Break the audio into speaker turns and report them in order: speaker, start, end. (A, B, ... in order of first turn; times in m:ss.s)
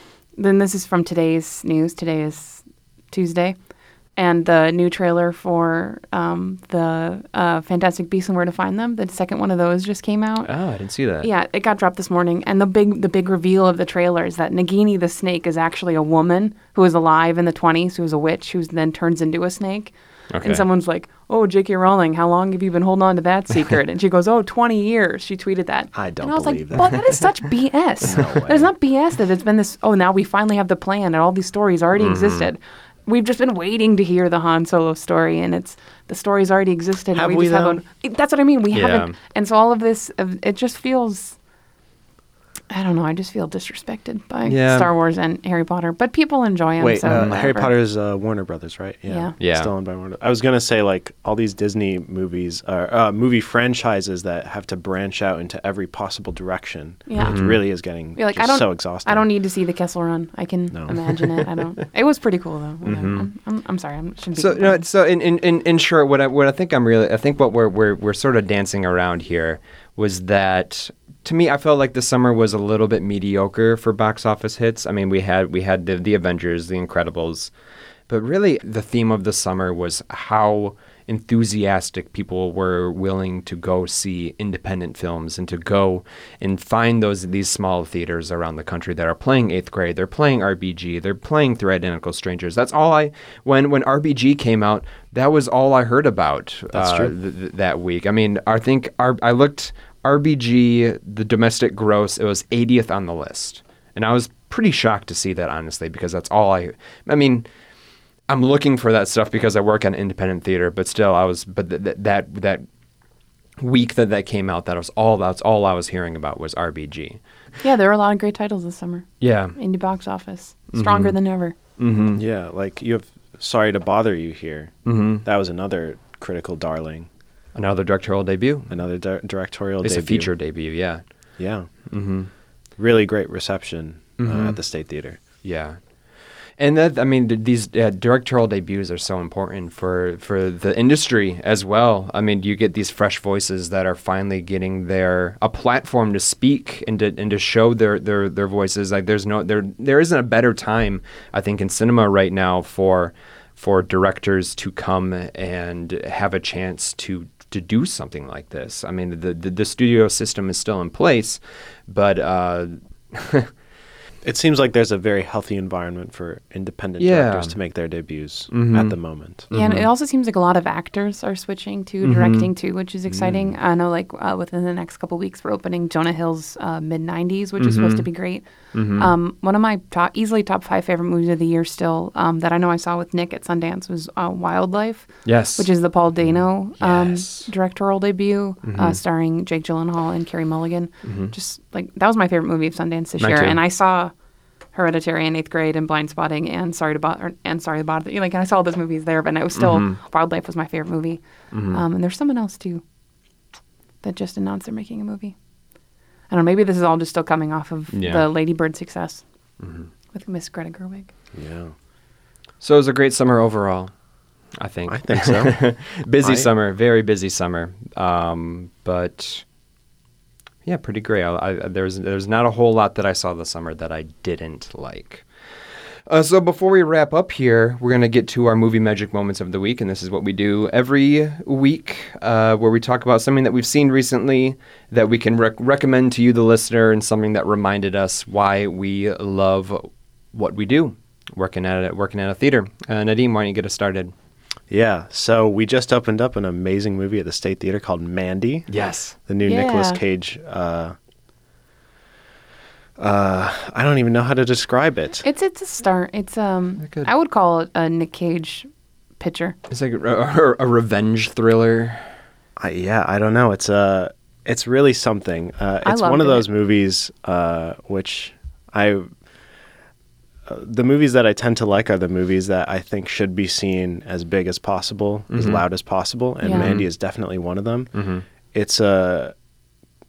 0:00.4-0:03.6 A
0:04.2-0:10.5 A
0:10.4-0:11.3 B
0:11.2-0:41.4 A
0:20.3-0:20.6 B
0:26.0-0:27.0 C
0:28.0-0:28.7 C
0:32.0-0:32.5 B
0:37.1-0:37.8 C
0:38.7-0:39.2 B
0:42.7-0:47.7 A
0:44.4-0:44.9 B
0:46.8-0:59.2 C
0:47.0-0:47.3 B
0:49.1-0:49.3 A
0:49.4-0:49.7 B
0:57.1-0:57.5 A
0:57.2-0:57.6 B
0:58.2-1:04.8 A
1:00.7-1:01.0 C
1:02.8-1:03.3 B
1:04.4-1:17.5 B
1:18.1-1:47.4 B
1:36.7-1:37.1 C
1:48.3-1:52.6 B
1:53.6-1:57.2 B
1:57.6-2:01.6 A
1:59.2-1:59.6 B
2:00.7-2:01.2 B
2:01.8-2:02.2 B
2:02.1-2:07.1 C
2:04.9-2:05.2 B
2:07.6-2:08.7 B
2:08.7-2:10.3 C
2:09.8-2:11.0 B
2:11.4-2:11.7 C
2:11.9-2:12.3 B
2:12.8-2:15.2 C
2:14.2-2:14.6 B
2:15.4-2:15.8 B
2:16.6-2:43.5 B
2:44.2-2:49.5 C
2:47.0-2:47.6 B
2:48.5-2:49.0 B
2:49.5-2:49.9 B
2:49.5-3:14.1 A
2:52.0-2:52.5 B
2:53.1-2:53.5 C
2:57.6-2:58.1 B
2:58.7-2:59.1 B
3:05.2-3:05.7 B
3:06.8-3:07.5 B
3:08.6-3:09.0 B
3:11.0-3:11.3 B
3:13.2-3:13.6 B
3:14.7-3:22.8 A
3:19.6-3:20.0 B
3:21.5-3:21.8 B
3:24.0-3:25.4 A
3:26.3-3:29.2 A
3:27.9-3:28.3 B
3:29.6-3:29.9 B
3:30.1-3:31.1 A
3:31.3-3:31.7 C
3:32.6-3:33.9 B
3:34.6-3:39.4 B
3:34.9-3:35.6 C
3:36.2-3:36.5 C
3:40.7-3:45.3 B
3:46.1-4:04.1 B
4:04.7-4:08.7 C
4:08.7-4:09.2 B
4:09.3-4:11.0 C
4:09.5-4:10.0 A
4:13.0-4:15.3 C
4:15.2-4:18.7 A
4:16.8-4:17.1 B
4:19.2-4:19.6 A
4:19.7-4:22.1 B
4:22.6-4:29.1 C
4:25.8-4:26.4 A
4:30.5-4:37.9 C
4:35.3-4:35.6 B
4:36.4-4:36.7 A
4:36.5-4:36.9 B
4:38.0-4:38.2 B
4:38.5-4:39.3 C